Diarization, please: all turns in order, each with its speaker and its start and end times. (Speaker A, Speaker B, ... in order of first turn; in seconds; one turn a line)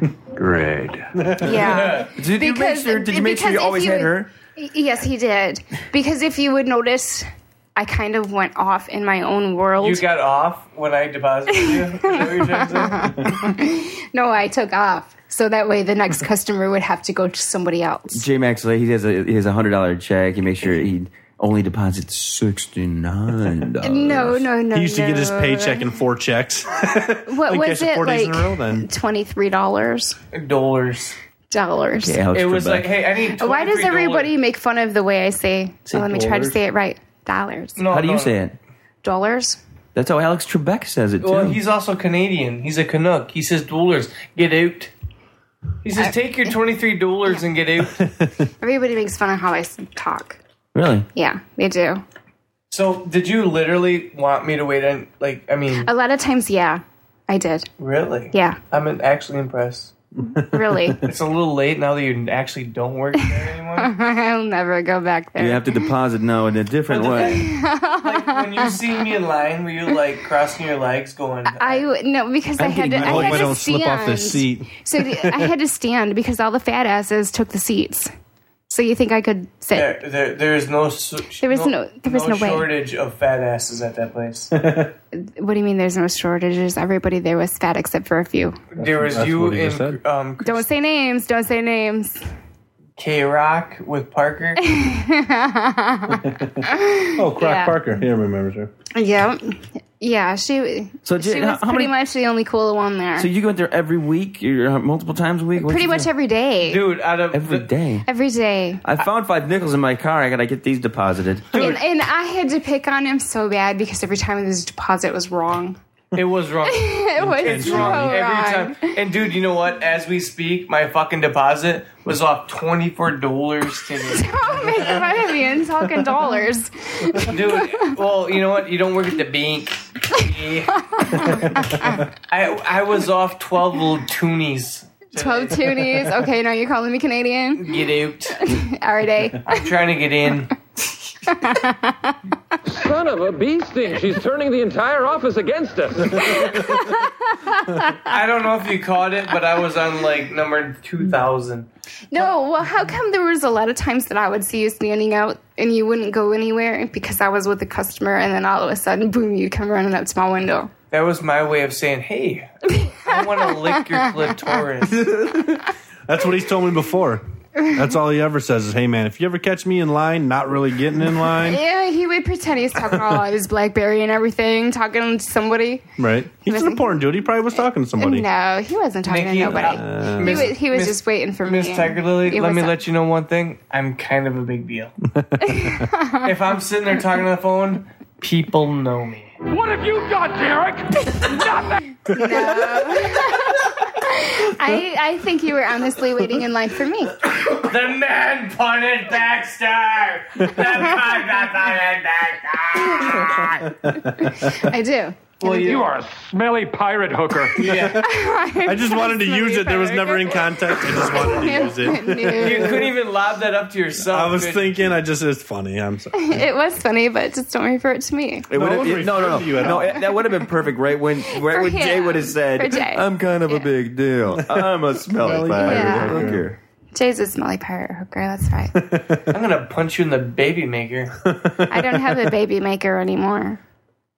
Speaker A: 1.1-1.7
Speaker B: 1.4-10.1
Speaker C: 1.5-2.2
Speaker D: 2.2-4.3
Speaker C: 9.8-13.3
Speaker B: 11.9-18.2
Speaker D: 18.1-24.5
Speaker B: 23.8-25.9
Speaker A: 24.7-28.9
Speaker B: 27.3-30.2
Speaker C: 30.3-31.2
Speaker B: 31.5-32.2
Speaker D: 32.0-32.9
Speaker C: 32.3-34.3
Speaker B: 33.4-37.8
Speaker A: 35.9-36.6
Speaker C: 37.8-38.4
Speaker D: 37.9-38.6
Speaker B: 39.0-39.6
Speaker D: 39.9-41.6
Speaker C: 41.2-44.9
Speaker C: 45.8-48.0
Speaker A: 48.0-48.5
Speaker B: 48.6-50.4
Speaker D: 50.7-51.1
Speaker B: 51.1-52.0
Speaker C: 52.7-55.9
Speaker B: 55.9-57.7
Speaker C: 57.8-59.9
Speaker B: 58.3-58.6
Speaker A: 60.3-61.0
Speaker B: 60.4-61.0
Speaker C: 61.0-63.9
Speaker B: 63.2-65.9
Speaker D: 65.4-67.4
Speaker C: 66.9-71.8
Speaker B: 67.2-68.8
Speaker B: 71.6-78.1
Speaker D: 72.6-73.5
Speaker A: 72.6-75.5
Speaker B: 78.7-79.9
Speaker C: 79.7-84.5
Speaker B: 81.4-82.7
Speaker A: 84.5-84.9
Speaker B: 85.1-88.6
Speaker C: 88.7-90.7
Speaker A: 88.8-90.0
Speaker B: 90.4-92.2
Speaker C: 93.0-94.6
Speaker B: 94.6-97.8
Speaker A: 96.1-98.7
Speaker B: 98.9-103.3
Speaker D: 101.0-101.9
Speaker D: 103.2-106.1
Speaker B: 105.6-106.8
Speaker C: 106.6-107.7
Speaker D: 107.3-108.1
Speaker B: 108.1-109.0
Speaker D: 108.8-111.8
Speaker B: 111.5-115.8
Speaker C: 116.1-124.8
Speaker B: 116.7-118.9
Speaker A: 117.2-118.2
Speaker B: 124.1-127.9
Speaker C: 127.2-131.4
Speaker B: 130.9-132.0
Speaker A: 131.2-131.9
Speaker C: 132.3-136.0
Speaker B: 135.1-137.8
Speaker C: 137.6-138.4
Speaker B: 138.4-139.7
Speaker C: 139.4-140.5
Speaker B: 141.2-142.2
Speaker E: 142.7-146.8
Speaker B: 146.3-148.2
Speaker C: 148.1-151.7
Speaker B: 152.1-160.7
Speaker C: 160.9-165.0
Speaker B: 162.8-163.5
Speaker A: 164.9-171.6
Speaker B: 171.4-175.8
Speaker A: 172.9-173.2
Speaker A: 176.0-178.3
Speaker B: 176.4-177.2
Speaker B: 178.0-182.8
Speaker C: 179.1-184.9
Speaker A: 179.4-180.5
Speaker A: 185.1-185.9
Speaker B: 185.4-186.2
Speaker C: 186.2-189.3
Speaker E: 189.5-191.8
Speaker B: 192.1-197.2
Speaker C: 197.4-203.6
Speaker A: 203.3-204.6
Speaker B: 204.1-205.8
Speaker C: 205.4-205.9
Speaker E: 205.5-207.9
Speaker C: 207.6-208.1
Speaker B: 207.9-212.9
Speaker A: 208.6-213.0
Speaker C: 212.4-214.7
Speaker A: 214.0-216.4
Speaker B: 216.1-218.5
Speaker D: 218.5-226.6
Speaker A: 218.5-220.0
Speaker B: 219.8-220.2
Speaker B: 221.2-223.7
Speaker A: 224.3-226.6
Speaker B: 225.3-226.3
Speaker B: 226.9-228.8
Speaker A: 228.8-229.2
Speaker C: 229.3-231.2
Speaker A: 231.3-232.3
Speaker B: 231.7-233.6